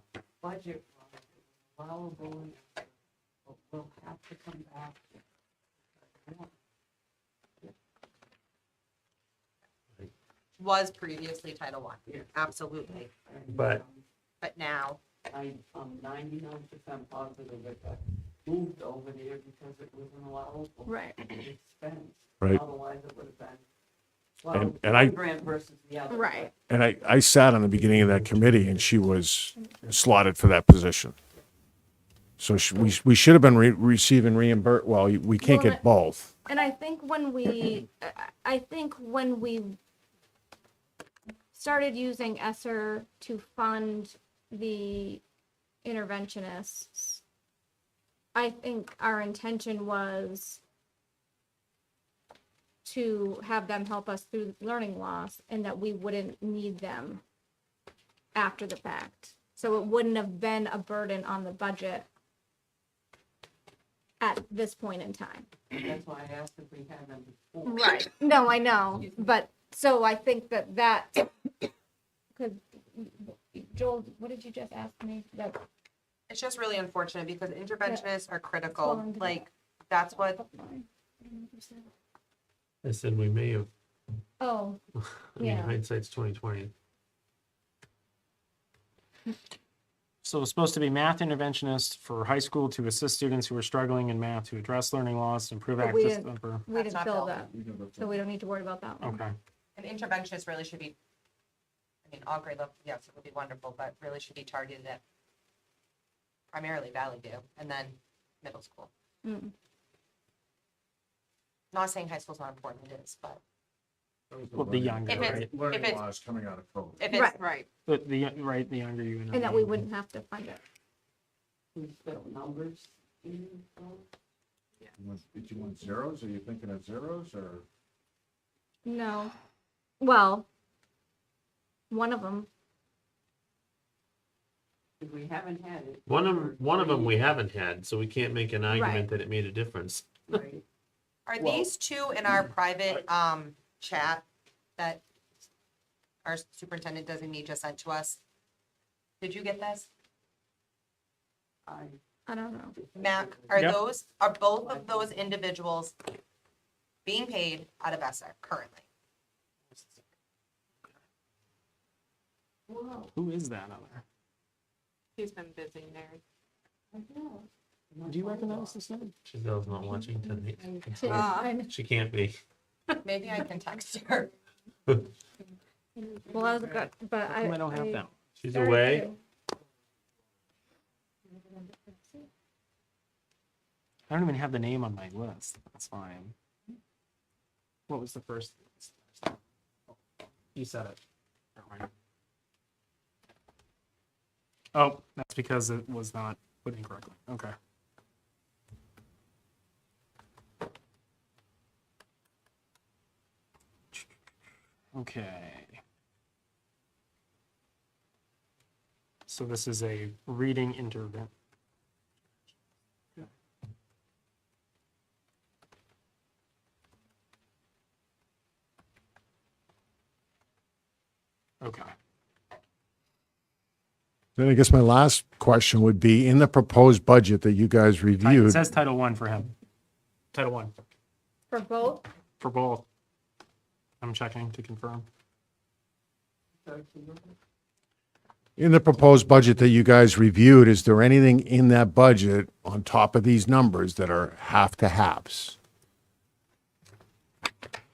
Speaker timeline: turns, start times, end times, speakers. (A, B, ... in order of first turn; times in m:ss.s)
0:00.4-0:02.9 A
0:03.4-0:05.2 A
0:06.0-0:06.5 A
0:10.6-0:13.1 B
0:12.1-0:14.0 A
0:13.5-0:13.8 C
0:14.4-0:15.0 B
0:15.3-0:23.6 A
0:20.9-0:21.4 D
0:24.4-0:26.5 A
0:24.5-0:25.2 E
0:26.1-0:26.5 D
0:26.7-0:31.2 E
0:28.2-0:28.6 F
0:32.4-0:36.3 E
0:35.4-0:35.8 D
0:36.4-0:39.8 D
0:41.5-0:45.2 D
0:45.8-0:47.2 D
0:48.4-0:50.6 D
0:52.8-0:57.2 D
0:58.4-1:02.1 D
1:04.2-1:05.5 D
1:05.7-1:07.9 A
1:07.6-1:11.3 D
1:08.9-1:09.3 A
1:12.4-1:15.6 D
1:16.3-1:20.4 B
1:18.7-1:21.9 D
1:22.8-1:23.7 C
1:24.4-1:24.8 D
1:25.0-1:26.7 C
1:25.4-1:25.8 D
1:30.2-1:36.7 F
1:35.8-1:39.2 D
1:36.7-1:37.5 B
1:37.5-1:38.2 E
1:39.0-1:39.4 F
1:39.8-1:41.0 B
1:42.0-1:45.0 B
1:46.5-1:48.9 B
1:49.2-1:49.5 D
1:51.7-1:53.4 B
1:54.3-1:57.0 E
1:54.5-1:55.6 F
1:55.1-1:56.1 B
1:57.0-1:57.3 B
1:57.1-1:57.4 D
1:57.2-1:57.7 G
1:57.9-1:59.8 F
1:59.3-2:00.6 D
2:01.8-2:04.1 A
2:05.0-2:07.6 E
2:08.8-2:09.3 D
2:10.0-2:10.5 D
2:11.9-2:12.5 D
2:15.0-2:17.2 A
2:16.1-2:20.4 C
2:18.7-2:19.1 D
2:20.3-2:20.6 A
2:21.3-2:24.3 B
2:24.8-2:25.0 B
2:26.2-2:28.2 B
2:29.2-2:29.9 B
2:31.7-2:32.0 A
2:32.3-2:32.8 D
2:32.7-2:33.8 A
2:33.0-2:36.0 B
2:33.5-2:33.8 F
2:34.4-2:35.4 A
2:37.0-2:38.8 B
2:43.1-2:44.0 F
2:45.2-2:46.2 G
2:47.9-2:48.8 A
2:48.0-2:49.1 F
2:49.2-2:52.4 C
2:50.9-2:51.7 D
2:51.1-2:51.5 G
2:53.0-2:54.3 B
2:56.0-2:59.2 D
2:56.6-2:58.2 F
2:58.4-2:59.1 C
3:04.1-3:06.4 F
3:07.9-3:09.4 F
3:10.5-3:11.0 F
3:11.6-3:11.9 F
3:14.7-3:17.6 F
3:24.9-3:25.8 F
3:29.3-3:31.3 F
3:41.6-3:41.9 F
3:44.4-3:48.6 E
3:48.2-3:49.5 F
3:50.3-3:50.7 F
3:51.5-3:52.1 D
3:52.4-3:52.8 F
3:54.0-3:55.1 F
3:56.6-3:57.4 A
3:58.6-4:05.6 E